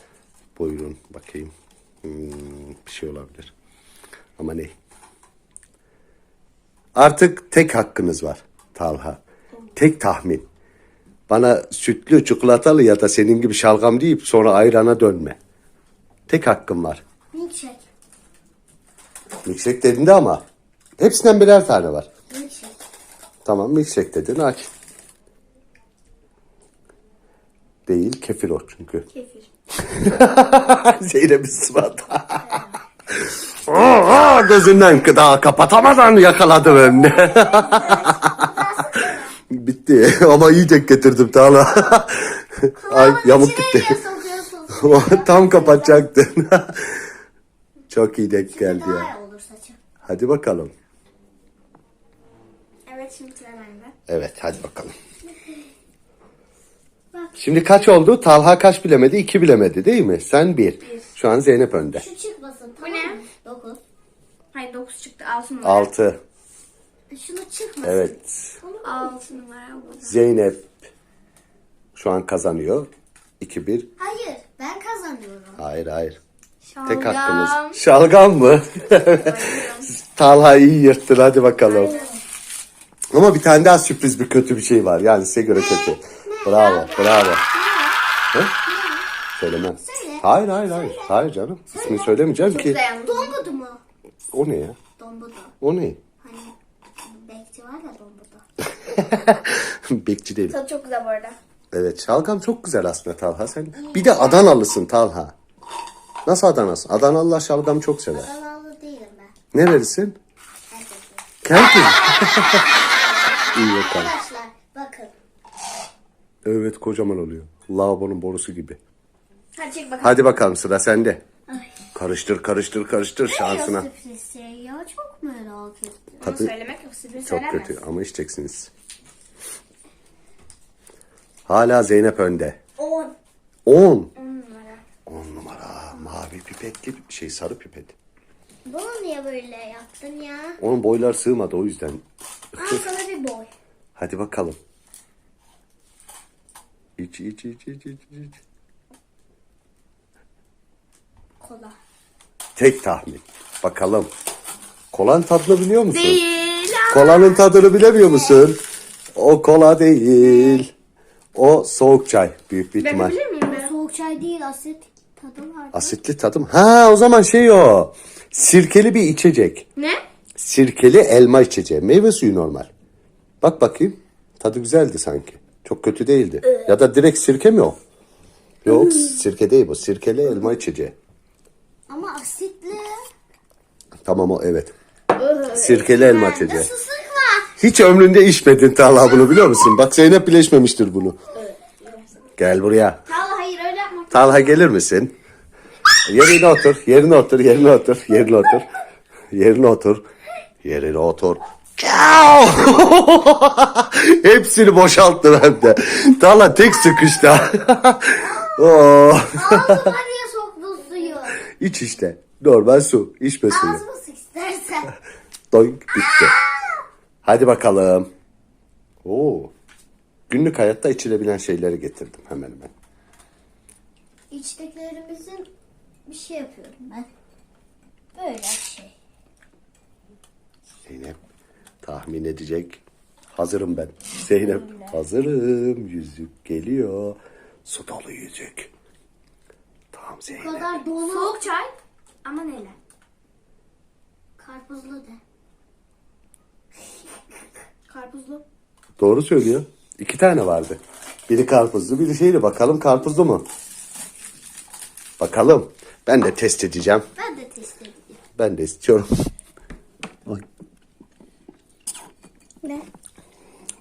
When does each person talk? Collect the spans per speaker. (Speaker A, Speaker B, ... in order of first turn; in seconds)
Speaker A: 0.6-1.5, 2.0-3.5, 4.4-4.7, 7.0-9.2, 9.8-10.4, 11.3-15.4, 16.3-17.0, 19.4-20.4, 21.0-22.1, 23.4-24.7, 27.9-29.1, 29.8-32.6, 33.1-38.5, 39.1-44.0, 44.8-47.0, 47.9-49.1, 50.0-50.7, 54.1-54.9, 57.4-62.1, 65.6-66.2, 67.8-68.6, 70.0-70.7, 72.0-73.9, 75.6-76.2, 76.8-82.0, 83.1-87.4, 89.4-92.8, 94.3-94.8, 95.6-96.0, 98.9-100.5, 101.7-105.3, 106.3-108.3, 109.5-110.2, 111.4-112.7, 113.5-114.2, 116.5-118.8, 120.0-121.2, 122.0-123.9, 126.2-126.5, 127.2-128.7, 131.5-132.6, 133.7-134.1, 135.1-137.9, 140.6-142.1, 142.6-142.9, 144.0-144.6, 147.0-148.4, 152.6-154.1, 154.9-156.2, 156.9-158.6, 159.2-160.7, 161.3-163.2, 165.7-169.7, 170.4-172.7, 173.4-177.8, 178.7-180.9, 184.0-184.7, 185.5-186.7, 187.6-191.2, 192.4-193.0, 194.1-195.1, 196.1-198.7, 199.3-200.0, 200.6-209.9, 211.4-213.8, 215.5-216.3, 217.2-218.1, 219.0-219.5, 220.3-222.7, 230.8-231.2, 231.8-232.8, 233.3-238.7, 239.9-240.8, 249.0-253.4, 255.2-257.1, 258.4-259.3
Speaker B: 17.3-17.9, 22.3-22.8, 36.7-39.3, 42.8-46.1, 48.5-49.8, 57.1-57.6, 61.9-63.8, 67.1-69.4, 74.0-75.6, 81.8-82.2, 85.5-87.9, 88.6-89.1, 89.8-92.2, 93.0-93.8, 95.0-95.5, 96.2-98.4, 103.7-104.6, 108.1-109.3, 110.7-111.3, 112.0-115.1, 121.5-121.8, 123.2-126.2, 132.8-133.1, 138.7-140.6, 142.6-143.5, 151.4-151.8, 157.8-158.5, 163.5-166.0, 181.9-183.0, 185.9-187.6, 208.2-211.4, 213.5-214.9, 215.9-216.8, 224.3-225.5, 226.1-227.1, 228.2-228.9, 234.4-235.0, 240.4-241.5, 244.4-245.2, 257.2-258.2
Speaker C: 29.1-29.5, 32.5-32.8, 52.9-53.9, 60.8-61.1, 62.8-63.2, 64.5-65.9, 68.8-70.2, 76.7-77.8, 79.0-79.9, 81.7-82.1, 92.3-93.4, 100.5-101.4, 119.5-120.3, 126.2-127.8, 134.2-134.8, 155.9-157.4, 162.8-163.7, 169.8-170.0, 185.1-185.9, 191.3-192.3, 193.1-194.7, 241.1-242.8, 247.9-248.4